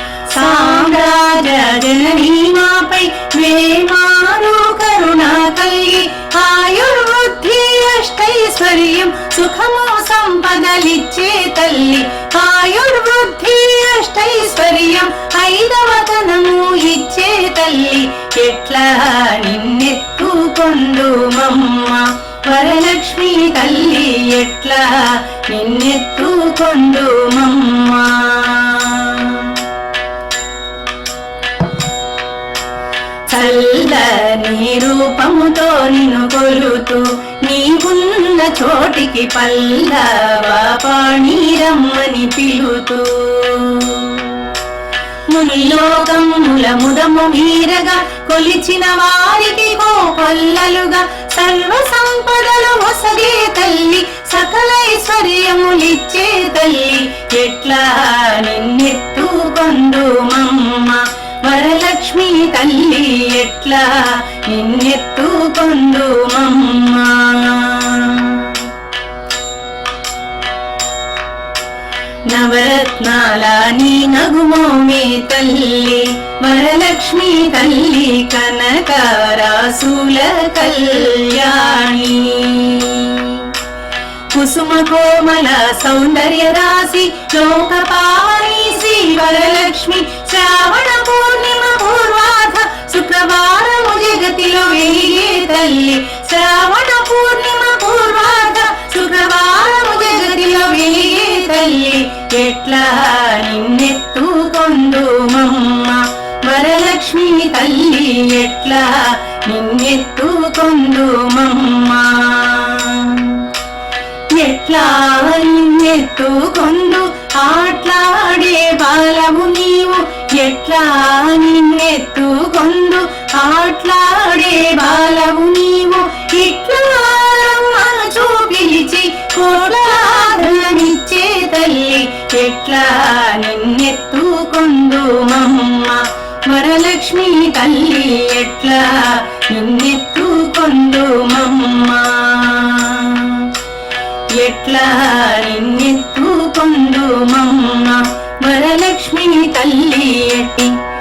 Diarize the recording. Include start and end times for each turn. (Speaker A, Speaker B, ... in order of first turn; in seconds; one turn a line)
Speaker A: 0.3-29.6
Speaker A: 33.3-44.5
Speaker A: 45.3-68.7
Speaker A: 72.3-83.5
Speaker A: 84.3-113.5
Speaker A: 114.3-143.5
Speaker A: 144.3-150.8